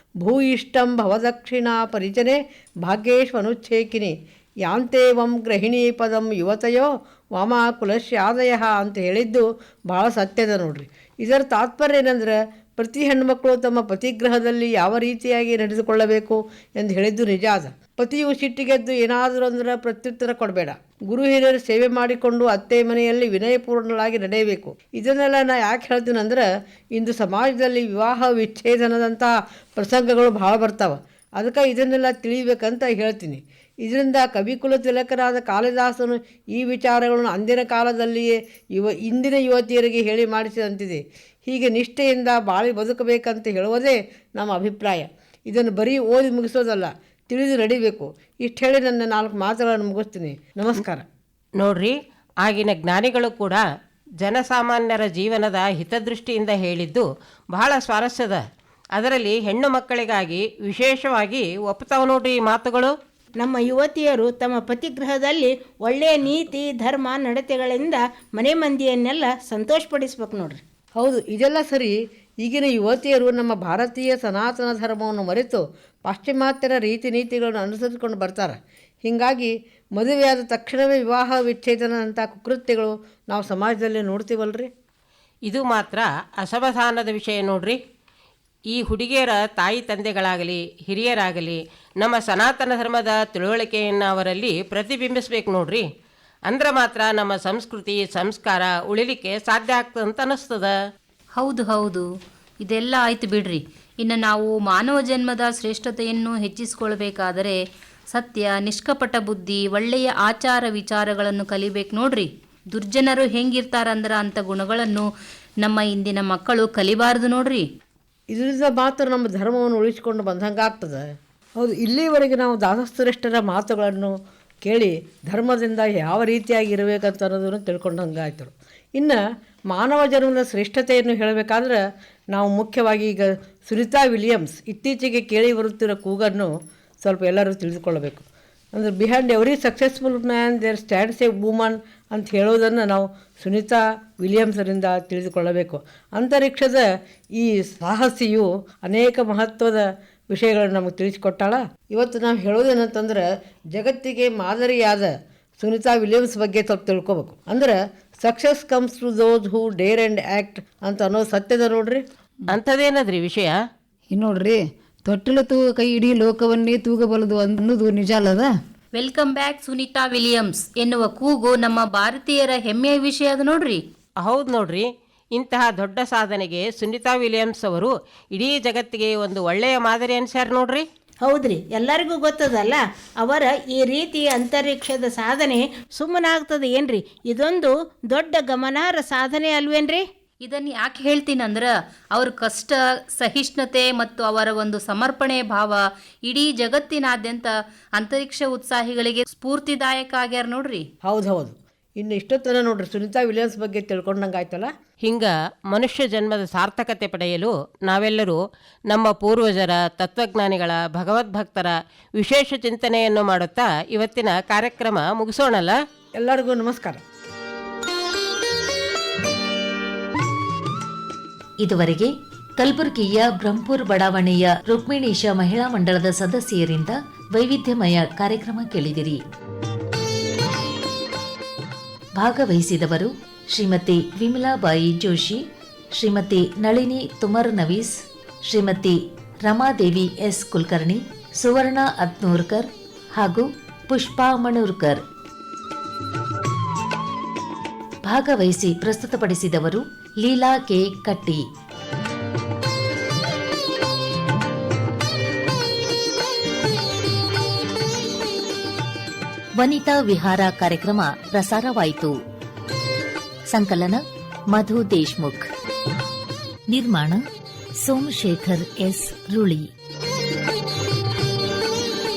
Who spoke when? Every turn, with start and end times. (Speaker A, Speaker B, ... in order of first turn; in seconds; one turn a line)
Speaker A: 0.2-4.1
Speaker A: 4.7-26.4
Speaker A: 26.9-51.0
Speaker B: 51.6-53.6
Speaker B: 54.2-58.4
Speaker B: 59.0-62.9
Speaker C: 63.4-70.6
Speaker A: 71.0-84.7
Speaker B: 85.5-87.8
Speaker B: 88.8-95.8
Speaker B: 96.5-100.7
Speaker D: 101.3-102.0
Speaker D: 102.6-107.6
Speaker D: 108.1-115.1
Speaker D: 115.6-117.6
Speaker A: 118.3-121.0
Speaker A: 121.6-131.8
Speaker A: 132.3-136.5
Speaker A: 137.0-146.8
Speaker A: 147.4-162.0
Speaker B: 162.5-163.5
Speaker E: 164.1-168.5
Speaker D: 168.9-173.8
Speaker B: 174.2-180.8
Speaker C: 181.2-190.0
Speaker D: 190.4-200.8
Speaker A: 201.0-204.7
Speaker B: 205.0-208.4
Speaker B: 208.9-215.8
Speaker A: 216.2-217.0
Speaker F: 221.6-229.2
Speaker F: 232.2-235.4
Speaker F: 235.9-245.0
Speaker F: 248.1-251.4
Speaker F: 259.6-262.2
Speaker F: 263.5-265.5
Speaker F: 266.7-267.2
Speaker F: 267.8-269.7